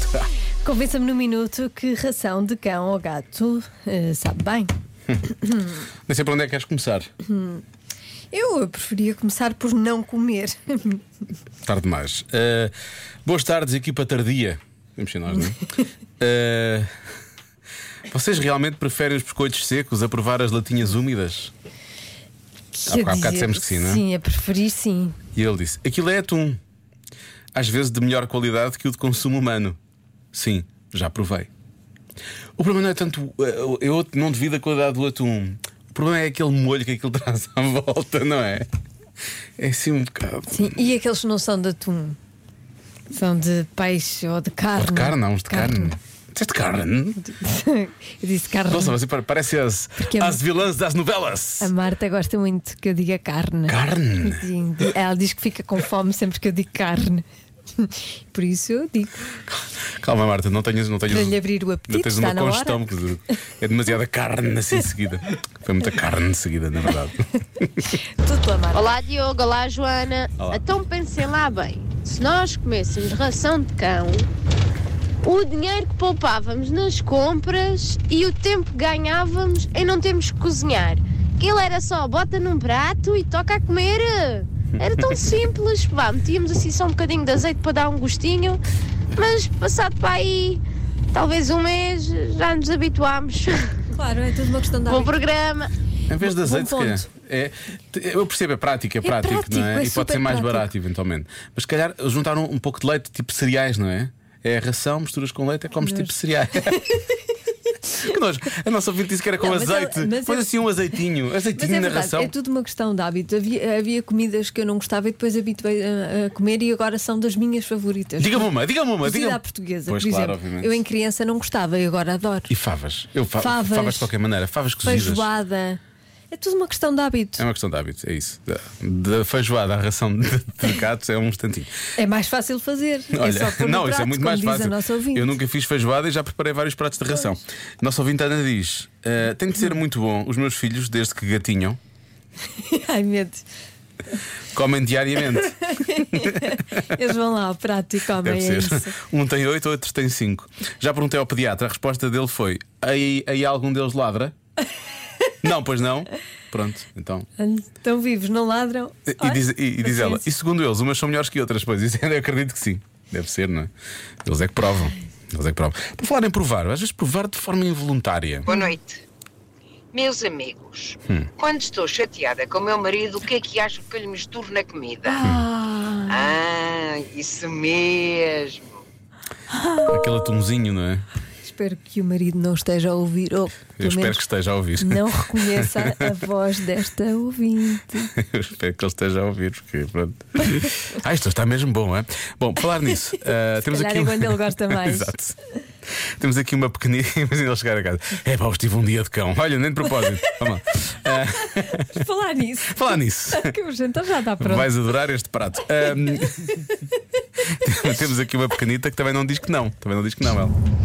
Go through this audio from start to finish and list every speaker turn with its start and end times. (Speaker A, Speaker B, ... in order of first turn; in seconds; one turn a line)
Speaker A: 0.6-4.7
Speaker B: 6.1-7.1
Speaker A: 7.2-7.6
Speaker A: 8.3-11.0
Speaker B: 11.7-12.7
Speaker B: 13.2-15.6
Speaker B: 16.2-16.9
Speaker B: 18.1-21.5
Speaker A: 22.7-25.2
Speaker B: 22.9-24.1
Speaker B: 25.4-26.6
Speaker B: 27.5-29.8
Speaker B: 30.3-31.5
Speaker B: 32.6-38.7
Speaker B: 39.6-40.8
Speaker A: 40.5-42.2
Speaker A: 43.1-45.9
Speaker B: 44.8-47.2
Speaker A: 47.2-49.0
Speaker B: 48.7-51.7
Speaker A: 50.0-50.4
Speaker A: 51.6-57.2
Speaker B: 53.7-54.5
Speaker A: 57.8-59.3
Speaker B: 60.0-61.4
Speaker A: 61.1-62.9
Speaker B: 61.9-68.0
Speaker A: 68.1-68.9
Speaker C: 68.7-74.3
Speaker C: 75.2-88.6
Speaker C: 89.2-90.6
Speaker C: 91.1-93.8
Speaker A: 93.9-95.2
Speaker C: 94.9-95.7
Speaker B: 96.1-106.8
Speaker A: 96.2-97.1
Speaker A: 99.0-100.7
Speaker A: 105.8-107.0
Speaker B: 108.0-112.3
Speaker A: 109.4-110.5
Speaker A: 111.5-118.5
Speaker B: 118.2-120.8
Speaker A: 119.0-122.5
Speaker B: 122.5-125.3
Speaker A: 123.4-124.1
Speaker A: 124.8-125.8
Speaker A: 126.3-127.5
Speaker B: 127.4-131.8
Speaker A: 132.0-135.4
Speaker B: 133.1-141.8
Speaker A: 142.6-143.4
Speaker B: 144.5-147.0
Speaker A: 145.6-148.9
Speaker B: 148.2-154.3
Speaker B: 155.4-157.3
Speaker A: 157.4-160.2
Speaker B: 159.1-163.7
Speaker B: 164.2-168.5
Speaker D: 168.5-169.0
Speaker D: 169.9-175.2
Speaker A: 175.1-176.4
Speaker D: 176.1-178.8
Speaker A: 179.6-179.9
Speaker B: 179.9-181.1
Speaker A: 181.4-184.2
Speaker B: 183.8-186.1
Speaker A: 184.8-188.1
Speaker B: 188.1-195.3
Speaker A: 193.6-195.1
Speaker B: 196.1-202.1
Speaker A: 201.5-204.7
Speaker B: 202.7-203.6
Speaker B: 204.4-206.7
Speaker B: 207.5-210.6